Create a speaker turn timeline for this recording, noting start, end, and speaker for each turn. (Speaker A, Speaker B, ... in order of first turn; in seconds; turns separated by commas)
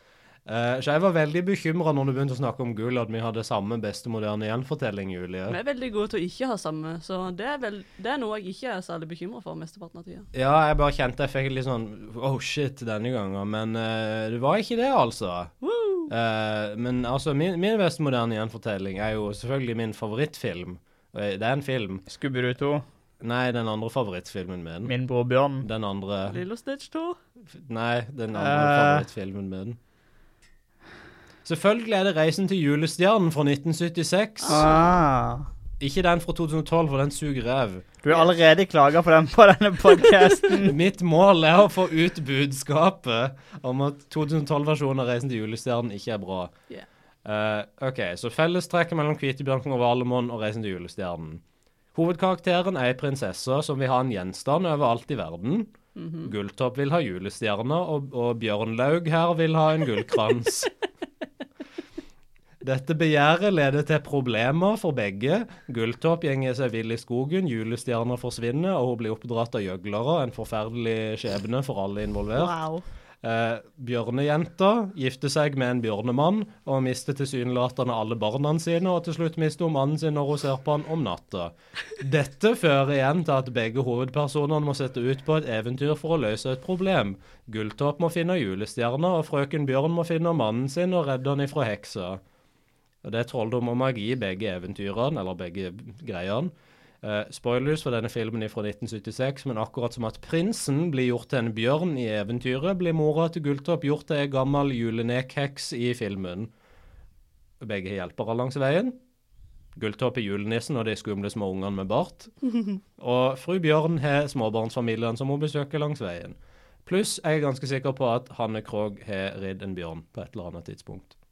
Speaker A: 0.5-5.6, Speaker B: 5.5-10.3, Speaker A: 10.3-15.5, Speaker B: 15.6-16.1, Speaker A: 16.1-22.0, Speaker C: 22.1-22.8, Speaker A: 23.2-24.9, Speaker C: 24.9-25.6, Speaker A: 25.6-26.4, Speaker B: 26.3-27.2, Speaker A: 27.5-29.8, Speaker C: 28.3-29.1, Speaker A: 31.4-34.6, Speaker B: 34.4-34.9, Speaker C: 34.5-35.5, Speaker A: 35.8-37.9, Speaker C: 38.0-40.8, Speaker A: 40.6-46.5, Speaker A: 47.2-51.4, Speaker A: 51.9-60.7, Speaker B: 56.0-56.3, Speaker A: 62.6-72.5, Speaker C: 72.3-72.8, Speaker A: 73.2-92.2, Speaker A: 93.0-106.5, Speaker A: 107.6-109.0, Speaker A: 109.7-112.3, Speaker A: 113.0-121.1